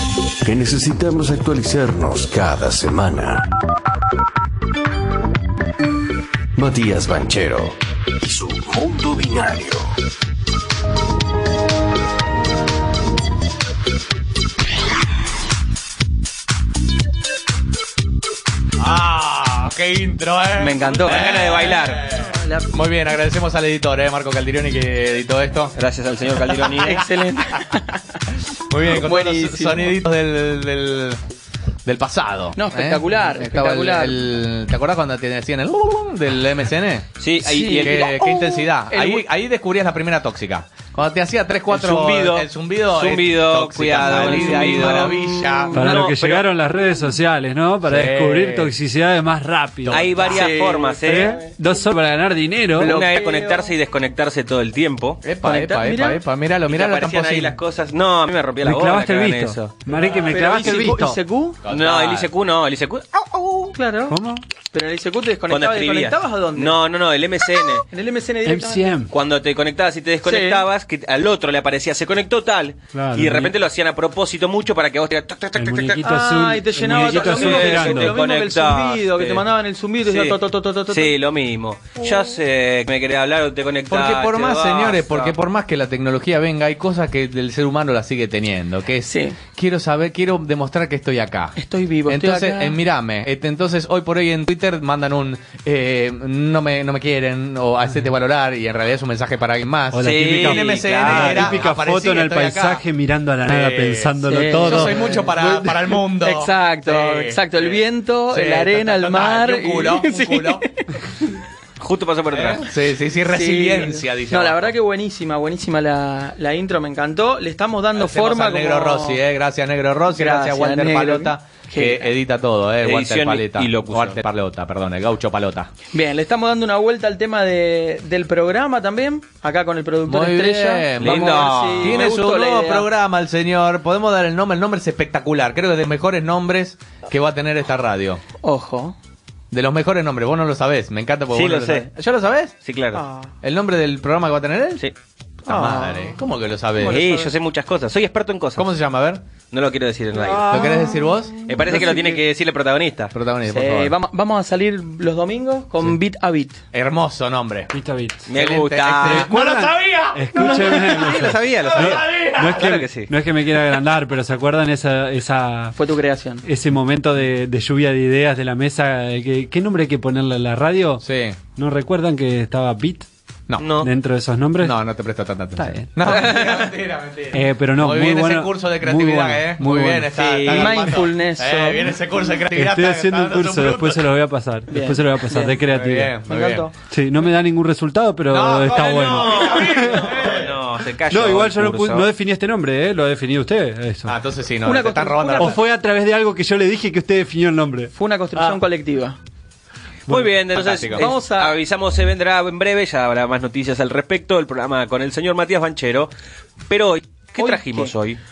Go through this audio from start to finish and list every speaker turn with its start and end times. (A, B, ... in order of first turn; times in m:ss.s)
0:00.4-0:03.5 A
0:06.5-0:09.9 A
0:18.8-0:25.8 B
0:20.6-0:21.5 C
0:21.0-0:22.0 D
0:22.1-0:22.7 C
0:25.7-0:27.1 D
0:26.6-0:28.1 C
0:28.5-0:31.2 B
0:28.8-0:30.0 C
0:31.8-0:37.1 B
0:32.6-0:34.3 C
0:37.2-0:38.1 D
0:37.4-0:39.2 C
0:37.6-0:46.0 B
0:41.7-0:46.4 D
0:45.7-0:50.4 E
0:47.8-0:48.7 B
0:49.9-0:51.4 D
0:50.2-0:51.5 C
0:51.0-0:52.9 E
0:52.8-0:53.7 C
0:52.8-0:55.2 D
0:55.2-0:57.6 B
0:55.4-0:56.2 C
0:56.7-0:59.8 D
0:58.6-1:01.2 E
1:00.1-1:01.6 C
1:01.6-1:02.3 B
1:01.7-1:03.7 D
1:03.7-1:04.2 C
1:04.1-1:04.4 E
1:04.7-1:06.8 C
1:05.5-1:07.8 D
1:07.9-1:08.9 C
1:08.4-1:09.1 E
1:09.1-1:16.0 D
1:10.2-1:10.6 C
1:12.9-1:13.5 E
1:15.6-1:18.2 E
1:16.0-1:21.1 C
1:16.9-1:19.4 D
1:20.0-1:20.4 D
1:20.9-1:25.4 D
1:23.9-1:42.8 B
1:29.0-1:29.4 C
1:31.6-1:32.8 C
1:39.9-1:45.8 E
1:40.0-1:41.6 D
1:43.4-1:47.4 B
1:44.3-1:45.4 C
1:46.2-1:51.4 C
1:48.3-1:50.6 B
1:51.8-1:52.7 D
1:52.3-1:54.7 B
1:53.2-1:59.2 C
1:57.9-2:05.7 B
2:00.0-2:02.1 C
2:02.8-2:04.2 D
2:05.9-2:12.9 C
2:10.0-2:18.2 B
2:11.0-2:12.1 D
2:18.4-2:19.0 C
2:19.5-2:22.5 B
2:21.3-2:21.9 D
2:22.6-2:23.0 D
2:22.9-2:23.3 C
2:23.4-2:24.8 B
2:25.4-2:27.0 B
2:25.4-2:26.2 C
2:26.8-2:27.3 C
2:26.8-2:28.7 D
2:28.6-2:29.2 B
2:29.5-2:30.6 D
2:30.2-2:32.0 C
2:30.4-2:31.4 B
2:31.4-2:33.1 D
2:33.1-2:34.0 B
2:33.5-2:36.6 C
2:36.7-2:37.7 B
2:37.7-2:38.2 E
2:38.3-2:39.3 D
2:38.3-2:40.8 B
2:39.0-2:45.8 E
2:40.4-2:43.1 D
2:41.9-2:42.2 B
2:45.8-2:46.4 C
2:46.4-2:53.1 E
2:51.0-2:51.4 B
2:53.6-2:53.9 D
2:53.8-2:54.8 E
2:54.6-3:04.1 B
2:55.6-2:56.4 E
2:57.3-3:00.1 E
3:00.1-3:00.9 D
3:00.5-3:02.0 C
3:02.5-3:06.1 E
3:04.7-3:05.6 C
3:05.7-3:06.6 B
3:06.2-3:06.7 C
3:06.8-3:10.3 E
3:08.3-3:10.5 B
3:09.0-3:12.1 D
3:11.1-3:14.1 E
3:14.0-3:15.6 B
3:14.6-3:15.6 C
3:15.4-3:17.9 E
3:17.9-3:19.2 C
3:20.1-3:26.1 D
3:20.5-3:21.1 B
3:20.9-3:21.5 C
3:26.7-3:28.2 D
3:27.4-3:27.9 C